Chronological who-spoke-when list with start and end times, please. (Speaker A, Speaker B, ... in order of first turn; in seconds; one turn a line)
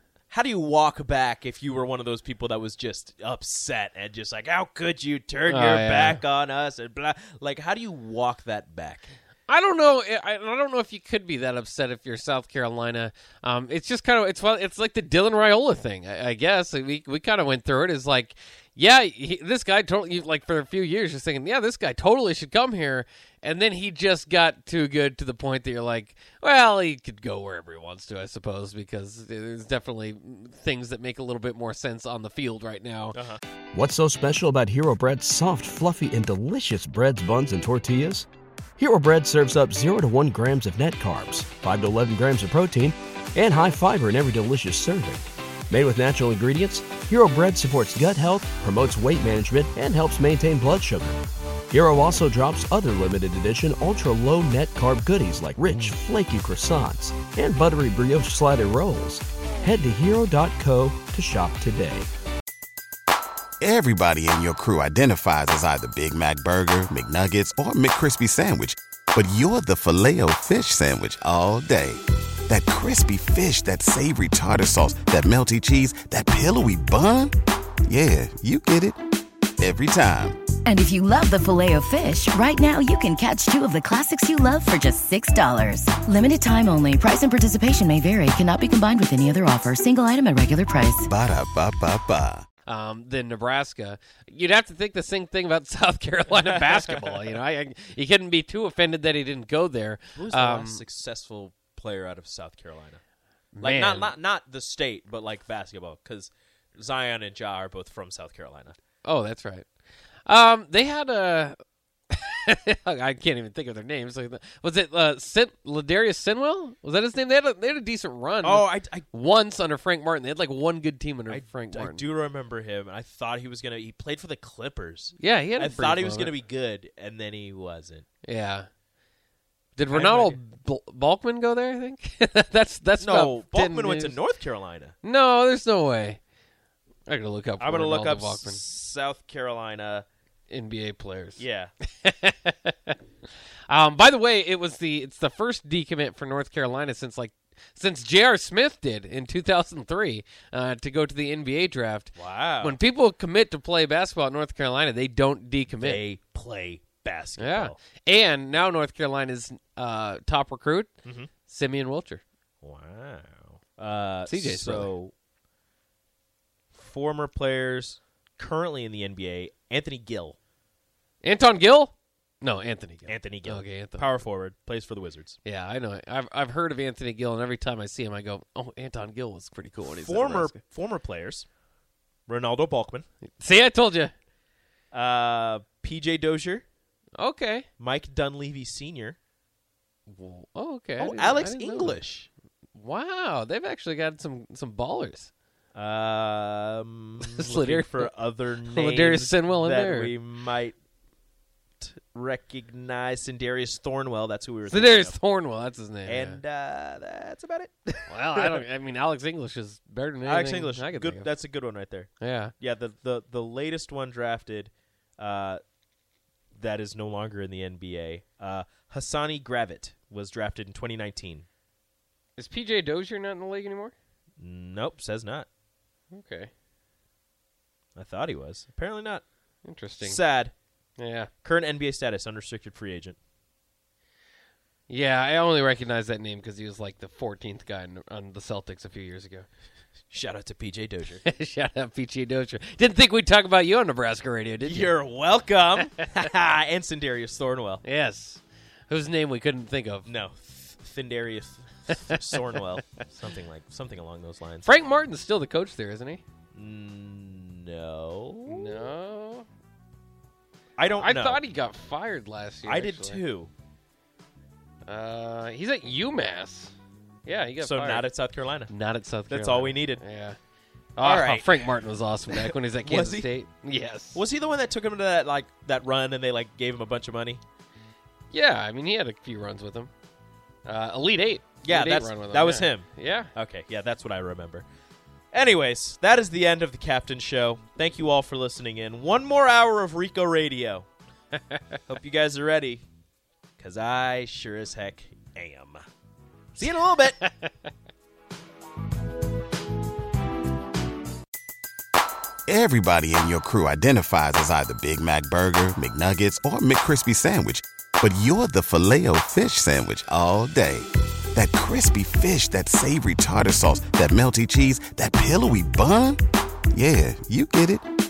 Speaker A: 0.3-9.1
Speaker B: 5.5-6.2
Speaker B: 9.5-33.2
Speaker A: 33.1-33.4
Speaker C: 33.7-38.3
Speaker C: 38.8-62.1
Speaker D: 63.6-77.3
Speaker D: 77.9-79.0
Speaker D: 79.6-80.4
Speaker E: 80.6-91.0
Speaker D: 91.0-92.4
Speaker B: 92.7-100.8
Speaker A: 96.4-97.0
Speaker A: 100.2-103.0
Speaker B: 103.5-104.1
Speaker A: 103.6-108.8
Speaker B: 109.0-109.7
Speaker B: 110.2-111.6
Speaker B: 112.1-122.0
Speaker A: 118.4-119.1
Speaker A: 121.3-128.0
Speaker B: 125.2-126.3
Speaker B: 128.2-128.7
Speaker B: 129.8-134.2
Speaker A: 129.9-130.4
Speaker A: 133.0-134.9
Speaker B: 135.0-136.2
Speaker B: 137.1-138.6
Speaker A: 137.6-140.1
Speaker B: 140.5-141.4
Speaker A: 141.4-141.7
Speaker B: 142.0-142.9
Speaker B: 143.7-156.0
Speaker A: 152.2-152.8
Speaker A: 155.8-157.8
Speaker B: 157.4-160.9
Speaker B: 161.5-162.2
Speaker A: 162.6-165.1
Speaker B: 164.3-164.9
Speaker A: 166.7-170.4
Speaker B: 171.2-174.0
Speaker A: 173.1-175.4
Speaker B: 175.4-180.6
Speaker A: 179.8-181.4
Speaker A: 182.3-183.1
Speaker B: 183.4-184.1
Speaker A: 184.9-186.6
Speaker B: 187.2-187.7
Speaker A: 187.8-189.2
Speaker B: 190.1-192.0
Speaker A: 191.0-192.3
Speaker B: 192.7-195.3
Speaker A: 195.7-200.8
Speaker B: 197.2-198.1
Speaker B: 198.7-200.1
Speaker A: 201.8-205.2
Speaker B: 204.7-206.4
Speaker A: 206.0-208.6
Speaker B: 208.1-211.3
Speaker A: 210.2-215.6
Speaker B: 212.2-212.5
Speaker A: 216.6-221.4
Speaker B: 222.4-223.9
Speaker A: 224.4-225.5
Speaker B: 226.1-226.5
Speaker A: 227.9-229.2
Speaker B: 229.6-230.2
Speaker A: 230.0-230.5
Speaker B: 231.0-231.3
Speaker A: 231.4-233.2
Speaker B: 234.9-239.5
Speaker A: 240.1-241.2
Speaker B: 241.2-244.9
Speaker A: 244.6-247.8
Speaker B: 247.8-250.1
Speaker A: 250.0-254.7
Speaker B: 254.6-256.2
Speaker A: 256.5-258.9
Speaker B: 258.5-259.4
Speaker A: 260.8-261.4
Speaker B: 260.9-263.2
Speaker A: 262.6-263.5
Speaker B: 264.9-266.7
Speaker B: 267.2-268.1
Speaker A: 267.6-268.7
Speaker B: 268.7-270.4
Speaker A: 269.3-270.0
Speaker B: 270.9-274.2
Speaker A: 271.0-273.3
Speaker A: 274.1-277.4
Speaker B: 278.3-279.9
Speaker B: 280.6-283.3
Speaker A: 281.6-284.6
Speaker A: 285.3-290.9
Speaker A: 291.9-292.8
Speaker A: 293.6-295.8
Speaker A: 296.6-297.2
Speaker D: 302.5-316.2
Speaker D: 316.7-317.8